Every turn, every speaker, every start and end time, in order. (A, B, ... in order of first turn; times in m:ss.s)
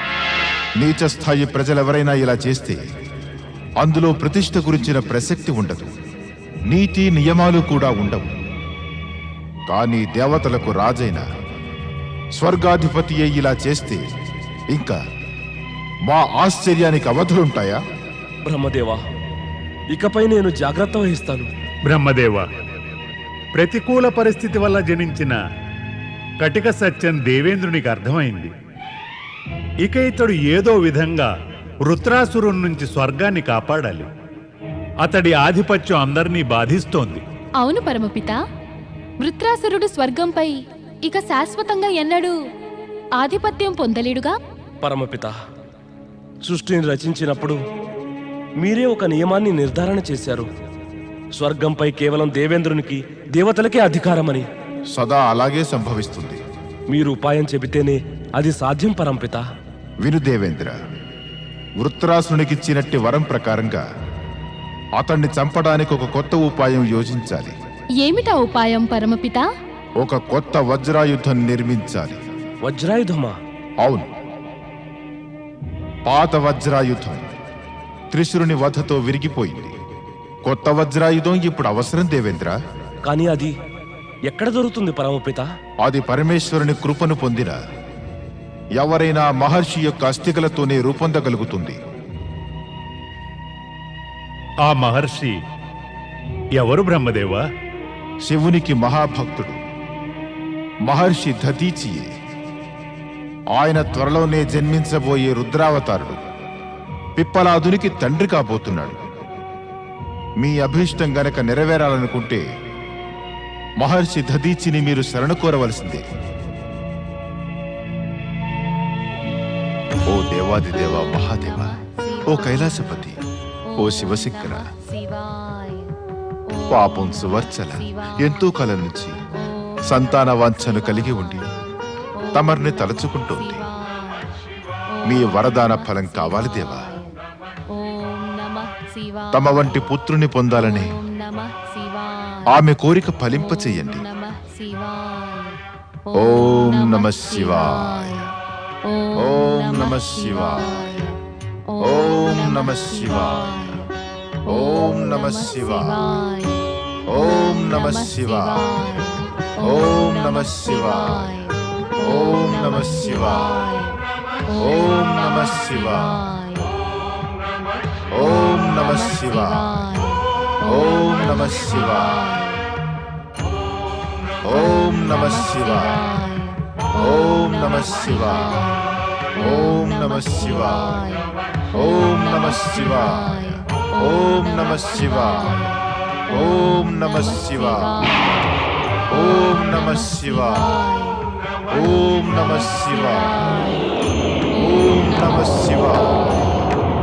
0:00.8-0:02.8 A
0:03.8-0:05.9 A
0:06.7-0:08.3 A
0:09.7-0:11.2 A
0:12.4-0:14.0 A
0:14.7-0:15.0 A
0:16.1-0:17.8 A
0:18.4-0:19.0 B
0:19.9-0:21.5 B
0:21.9-0:22.4 C
0:23.6-0:25.4 C
0:26.4-0:28.5 C
0:29.9-0:31.3 C
0:31.9-0:34.1 C
0:35.0-0:37.2 C
0:37.6-0:38.4 D
0:39.2-0:40.5 D
0:41.1-0:42.4 D
0:43.2-0:44.3 D
0:44.8-0:45.4 B
0:46.5-0:47.6 B
0:48.6-0:50.5 B
0:51.4-0:54.5 B
0:54.9-0:56.4 A
0:56.9-0:59.4 B
1:00.0-1:00.8 A
1:01.8-1:03.8 A
1:05.0-1:07.5 A
1:08.0-1:09.4 D
1:10.0-1:12.2 A
1:12.6-1:13.4 B
1:16.1-1:17.2 A
1:18.1-1:19.7 A
1:20.5-1:22.6 A
1:23.1-1:23.6 B
1:24.3-1:25.5 B
1:25.8-1:27.6 A
1:28.8-1:31.8 A
1:34.7-1:35.4 C
1:36.6-1:37.4 C
1:38.3-1:39.6 A
1:40.9-1:42.1 A
1:43.5-1:46.2 A
1:47.2-1:49.0 A
1:50.4-1:52.4 A
1:53.8-1:56.0 A
2:00.1-2:03.2 A
2:01.4-2:03.0 D
2:03.7-2:05.9 D
2:03.8-2:04.7 A
2:06.5-2:08.5 D
2:06.7-2:09.1 A
2:09.4-2:11.5 D
2:09.9-2:11.5 A
2:12.2-2:14.3 D
2:12.4-2:13.6 A
2:14.9-2:17.2 D
2:15.1-2:16.9 A
2:17.7-2:19.9 D
2:19.3-2:21.0 A
2:20.6-2:22.5 D
2:22.5-2:24.0 A
2:23.4-2:28.3 D
2:26.2-2:28.2 A
2:28.9-2:31.2 D
2:29.2-2:30.8 A
2:31.7-2:33.9 D
2:31.8-2:33.7 A
2:34.5-2:36.1 A
2:34.5-2:36.6 D
2:37.1-2:38.6 A
2:37.2-2:46.7 D
2:39.6-2:41.3 A
2:42.0-2:43.6 A
2:44.6-2:46.2 A
2:48.1-2:49.7 A
2:48.6-2:52.6 D
2:50.7-2:52.2 A
2:54.5-2:56.0 A
2:54.6-3:08.5 D
2:57.0-2:58.5 A
2:59.4-3:01.0 A
3:01.8-3:03.4 A
3:04.0-3:05.6 A
3:06.3-3:08.0 A
3:09.1-3:10.8 A
3:09.1-3:11.2 D
3:11.7-3:13.3 A
3:11.8-3:13.9 D
3:14.5-3:16.7 D
3:14.6-3:16.3 A